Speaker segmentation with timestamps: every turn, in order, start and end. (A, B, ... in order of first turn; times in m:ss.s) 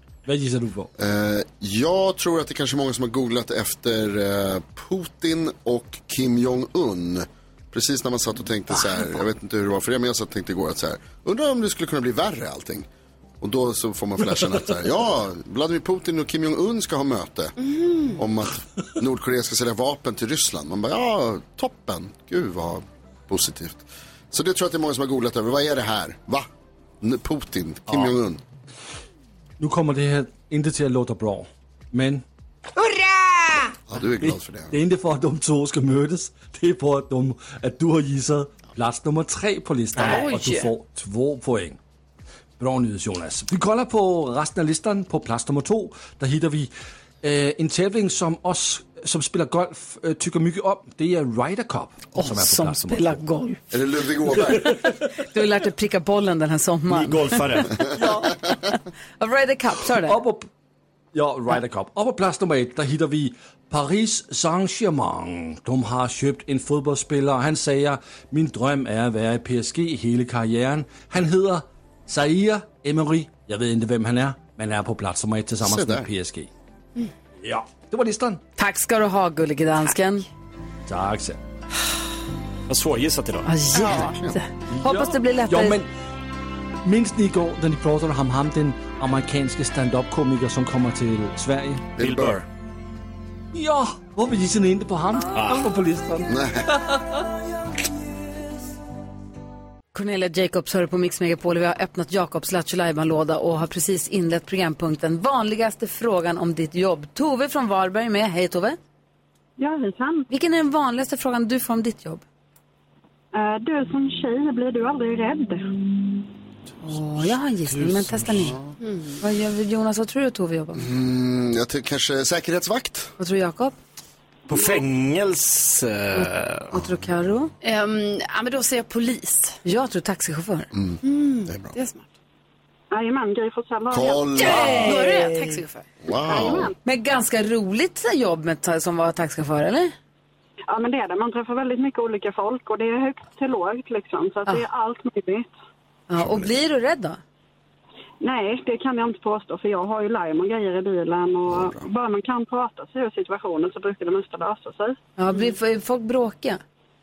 0:00.2-0:00.9 A
0:01.0-0:12.9 B
0:13.4-0:17.6 B
0:17.6-0:18.2 C
0:18.1-0:26.5 B
0:27.0-0:28.4 B
0:29.6-0:32.2 A
0:33.9-0:34.7 B
0:34.2-0:41.8 A
0:40.0-0:40.7 C
0:42.6-0:46.7 A
0:47.2-0:53.2 A
0:52.2-0:53.6 D
0:53.7-0:54.7 B
0:55.2-1:00.2 D
0:56.9-0:57.8 E
0:58.0-0:58.3 A
1:00.0-1:00.5 A
1:01.1-1:16.5 A
1:15.6-1:16.1 B
1:17.4-1:18.4 A
1:18.6-1:20.2 D
1:20.9-1:21.4 A
1:22.7-1:23.5 E
1:23.4-1:25.8 D
1:23.8-1:24.4 B
1:24.7-1:25.9 A
1:26.8-1:31.9 A
1:32.0-1:32.4 B
1:32.0-1:32.4 E
1:33.5-1:37.3 A
1:35.3-1:35.7 E
1:36.3-1:36.7 B
1:39.9-1:48.8 D
1:49.6-1:50.3 F
1:50.3-1:52.2 D
1:53.3-1:55.8 F
1:56.8-1:58.6 D
1:58.8-1:59.2 C
1:59.2-2:00.9 D
2:00.8-2:03.1 B
2:03.2-2:03.7 D
2:04.5-2:06.7 E
2:06.1-2:07.5 D
2:07.6-2:09.6 C
2:09.6-2:10.7 D
2:10.7-2:11.7 B
2:11.0-2:12.0 C
2:12.9-2:14.5 F
2:13.9-2:15.0 B
2:14.4-2:15.8 C
2:14.4-2:15.6 D
2:16.0-2:16.7 B
2:16.3-2:16.7 F
2:16.8-2:19.9 D
2:20.7-2:25.5 F
2:26.1-2:27.2 D
2:26.2-2:26.4 B
2:28.2-2:35.0 F
2:31.5-2:31.8 B
2:35.2-2:36.6 D